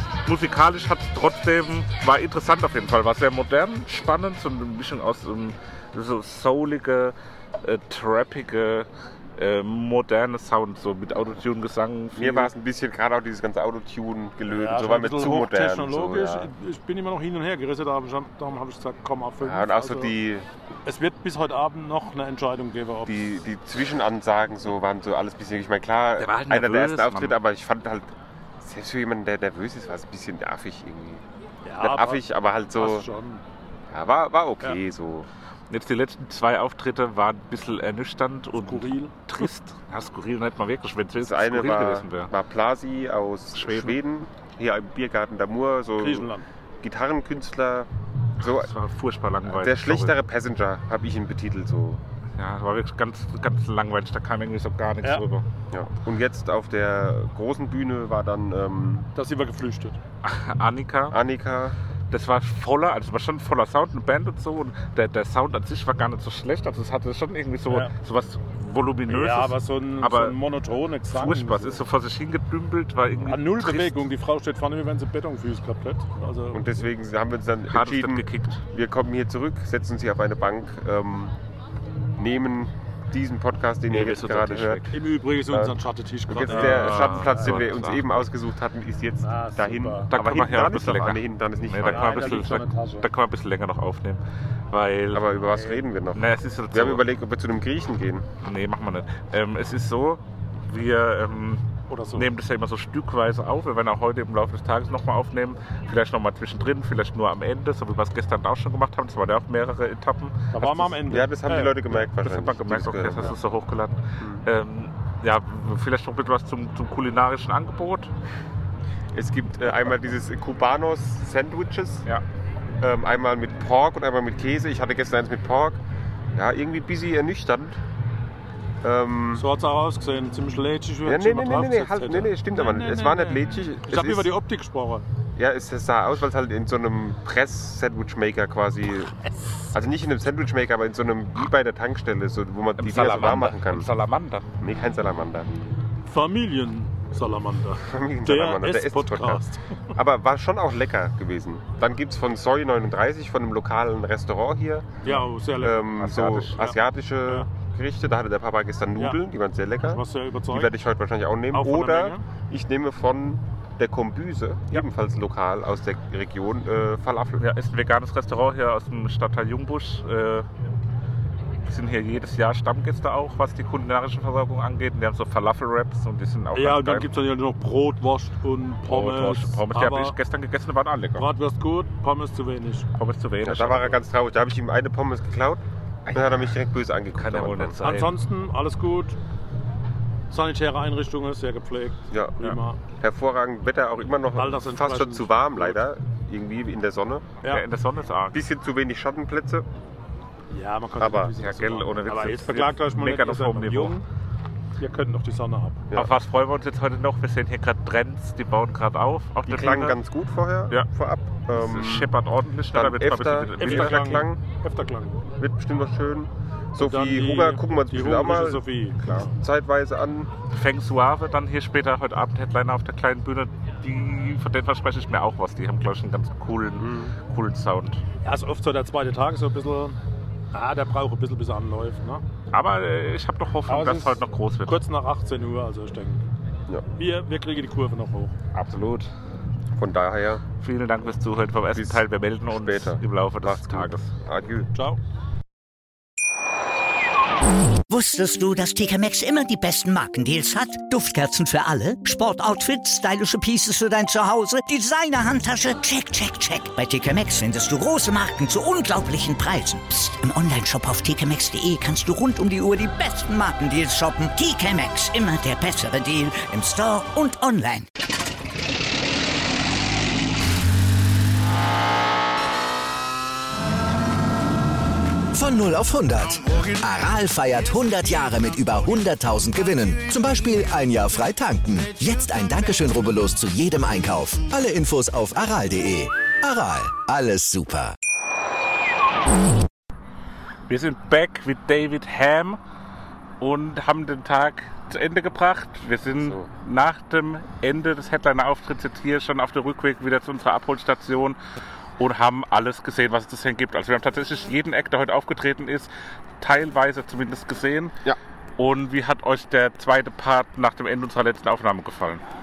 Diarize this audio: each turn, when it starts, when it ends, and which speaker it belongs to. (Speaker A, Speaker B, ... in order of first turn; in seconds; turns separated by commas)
Speaker A: 0.2-12.5, Speaker B: 12.2-16.5, Speaker C: 14.5-20.1, Speaker B: 19.4-20.5, Speaker C: 20.8-23.4, Speaker B: 23.0-31.2, Speaker A: 26.2-27.4, Speaker C: 31.6-33.4, Speaker B: 31.8-33.1, Speaker B: 33.9-35.3, Speaker A: 35.7-42.3, Speaker C: 38.5-39.1, Speaker B: 41.2-46.3, Speaker A: 43.5-44.0, Speaker C: 46.0-46.5, Speaker B: 46.8-47.9, Speaker B: 48.4-48.7, Speaker A: 48.4-50.1, Speaker B: 49.4-52.0, Speaker A: 52.4-55.4, Speaker B: 55.7-59.1, Speaker C: 59.1-60.0, Speaker A: 60.2-61.2, Speaker B: 61.1-61.8, Speaker A: 62.1-70.3, Speaker C: 67.7-67.9, Speaker C: 69.1-71.8, Speaker A: 71.1-74.0, Speaker C: 73.2-76.8, Speaker B: 76.5-81.3, Speaker A: 77.7-78.6, Speaker B: 82.2-92.6, Speaker A: 83.9-85.0, Speaker C: 85.0-87.8, Speaker A: 86.5-88.3, Speaker C: 89.2-90.1, Speaker A: 90.1-95.2, Speaker C: 91.9-93.0, Speaker B: 95.1-98.2, Speaker A: 96.1-97.0, Speaker A: 98.4-101.6, Speaker C: 101.9-102.2, Speaker A: 102.1-110.9, Speaker B: 110.5-113.4, Speaker C: 110.6-112.0, Speaker A: 112.2-118.1, Speaker B: 114.2-114.5, Speaker B: 119.1-122.1, Speaker B: 122.8-125.8, Speaker B: 126.3-127.8, Speaker B: 128.8-129.4, Speaker C: 129.4-135.0, Speaker B: 131.0-134.3, Speaker B: 135.3-139.1, Speaker B: 139.7-143.9, Speaker A: 142.8-144.4, Speaker B: 144.6-145.6, Speaker C: 146.0-149.6, Speaker B: 147.8-167.4, Speaker C: 155.0-157.5, Speaker A: 155.9-156.6, Speaker C: 159.9-160.7, Speaker C: 161.5-162.2, Speaker A: 167.4-170.5, Speaker A: 171.6-177.1, Speaker C: 176.5-180.2, Speaker A: 178.8-181.3, Speaker C: 181.2-182.9, Speaker A: 182.9-184.0, Speaker B: 183.4-187.8, Speaker A: 186.1-186.5, Speaker A: 187.1-188.1, Speaker C: 187.8-189.2, Speaker C: 190.3-192.8, Speaker B: 192.1-192.3, Speaker B: 193.0-197.4, Speaker C: 194.3-195.8, Speaker A: 197.4-198.4, Speaker B: 198.3-199.7, Speaker C: 200.5-204.0, Speaker B: 201.0-201.3, Speaker A: 201.4-204.0, Speaker C: 204.8-205.8, Speaker A: 205.9-210.0, Speaker B: 209.4-212.1, Speaker A: 211.5-214.3, Speaker B: 212.7-214.4, Speaker C: 213.6-215.2, Speaker B: 215.4-220.3, Speaker C: 216.8-219.0, Speaker A: 219.0-219.3, Speaker A: 220.5-228.0, Speaker B: 226.8-227.1, Speaker C: 228.2-229.9, Speaker C: 230.5-232.2, Speaker A: 232.5-234.8, Speaker C: 233.7-236.2, Speaker C: 237.0-238.3, Speaker A: 238.5-239.1, Speaker B: 239.8-240.4, Speaker A: 240.6-244.1, Speaker B: 241.7-244.7, Speaker D: 247.9-267.9, Speaker E: 275.3-287.9, Speaker A: 290.7-292.6, Speaker A: 293.4-301.4, Speaker B: 296.1-296.5, Speaker A: 302.0-308.0, Speaker A: 308.6-312.2